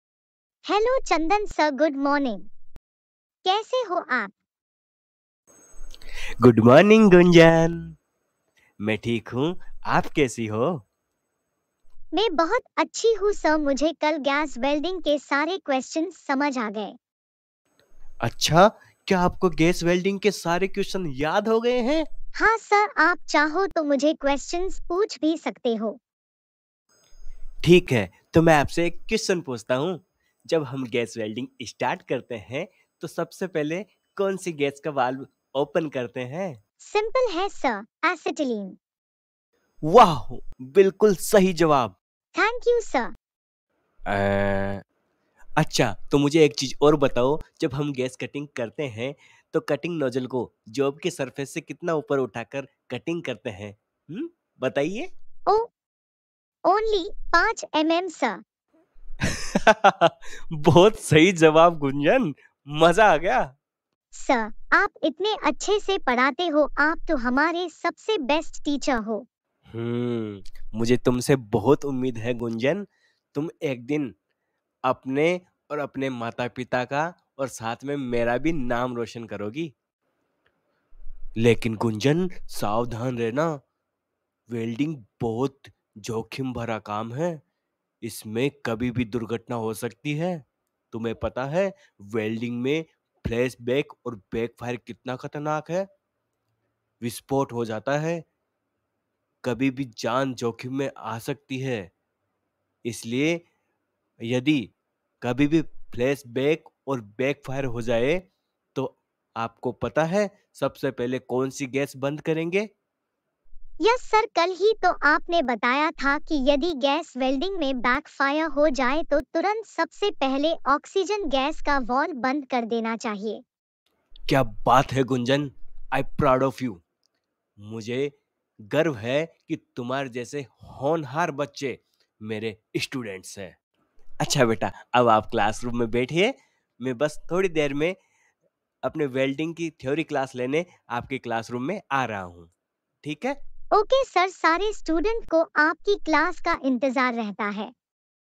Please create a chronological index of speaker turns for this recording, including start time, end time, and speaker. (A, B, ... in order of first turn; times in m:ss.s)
0:00.7-0:02.4 A
0:03.4-0:04.3 A
0:06.4-0:07.9 B
0:08.8-0:10.8 B
0:12.1-0:17.0 A
0:18.2-0:22.0 B
0:22.4-0:26.0 A
0:27.6-0:36.6 B
0:36.8-0:38.8 A
0:39.8-0:41.9 B
0:42.3-0:43.1 A
0:44.1-0:44.8 B
0:45.6-0:55.1 B
0:56.6-0:58.4 A
0:59.6-1:03.5 B
1:04.1-1:09.2 A
1:09.7-1:14.1 B
1:14.8-1:19.7 B
1:21.4-1:23.6 B
1:24.5-1:27.4 B
1:28.0-1:35.9 B
1:37.0-1:38.2 B
1:39.4-1:41.9 B
1:42.8-1:43.4 B
1:44.2-1:52.7 B
1:53.8-2:03.4 A
2:04.3-2:06.8 B
2:07.6-2:08.2 B
2:08.7-2:13.5 B
2:14.2-2:18.0 B
2:18.8-2:22.5 B
2:23.0-2:23.4 B
2:23.7-2:27.7 A